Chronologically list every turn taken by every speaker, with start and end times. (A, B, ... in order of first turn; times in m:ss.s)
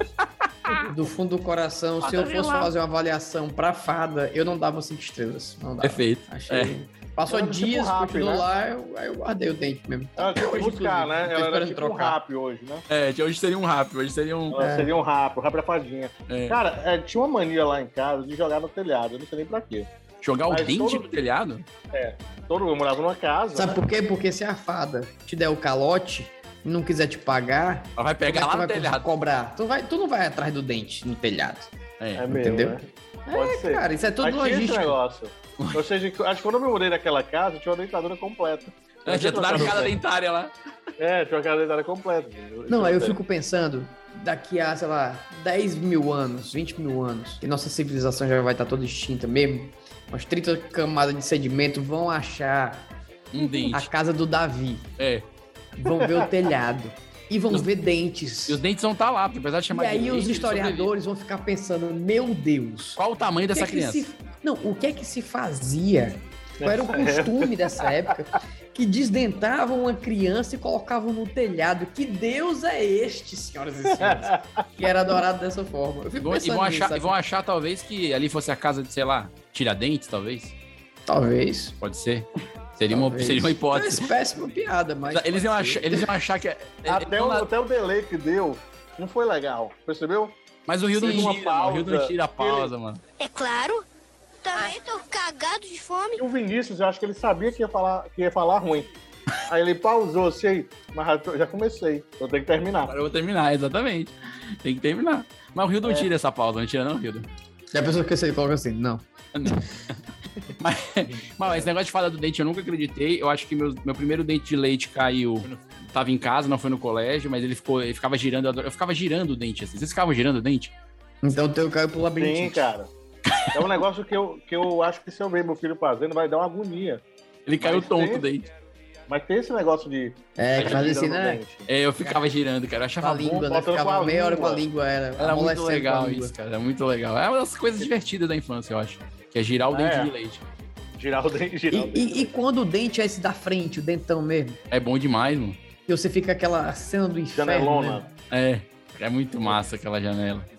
0:00.7-0:12.2 A
0:02.0-0:02.7 B
0:05.8-0:06.7 B
0:07.3-0:08.5 C
0:10.2-0:12.8 C
0:12.9-0:14.6 B
0:14.5-0:19.9 C
0:14.6-0:14.9 A
0:16.3-0:16.6 B
0:20.2-0:21.7 B
0:20.5-0:21.1 C
0:21.9-0:23.8 C
0:23.6-0:31.7 A
0:28.0-0:29.1 B
0:32.0-0:32.2 B
0:32.2-0:40.0 C
0:32.3-0:35.0 A
0:39.1-0:40.5 B
0:41.0-0:43.2 C
0:42.7-0:54.9 A
0:53.3-0:53.9 B
0:55.0-0:55.3 B
0:55.8-0:58.6 A
0:58.5-1:00.9 B
0:59.7-1:17.2 A
1:03.0-1:04.1 B
1:06.6-1:07.5 C
1:14.0-1:14.6 C
1:16.2-1:20.5 B
1:21.1-1:21.8 A
1:21.8-1:24.1 B
1:22.9-1:26.1 A
1:25.1-1:27.5 B
1:26.9-1:30.4 C
1:30.7-1:33.0 B
1:31.0-1:32.7 C
1:31.0-1:31.3 A
1:33.2-1:33.8 D
1:34.5-1:36.2 D
1:36.2-1:38.9 C
1:39.5-1:42.9 C
1:42.9-1:44.1 B
1:44.6-1:47.3 B
1:47.7-1:49.6 A
1:49.4-1:49.6 B
1:50.6-2:00.7 B
2:01.2-2:02.7 A
2:02.2-2:02.9 C
2:03.5-2:07.0 C
2:07.5-2:08.5 B
2:07.6-2:08.3 C
2:09.1-2:11.7 C
2:10.4-2:11.4 A
2:11.7-2:13.5 B
2:13.0-2:16.3 A
2:13.4-2:14.6 C
2:15.2-2:20.4 B
2:19.7-2:20.1 C
2:21.0-2:22.3 C
2:21.7-2:24.6 A
2:24.7-2:25.6 B
2:25.9-2:28.0 A
2:27.4-2:28.1 C
2:28.3-2:30.5 B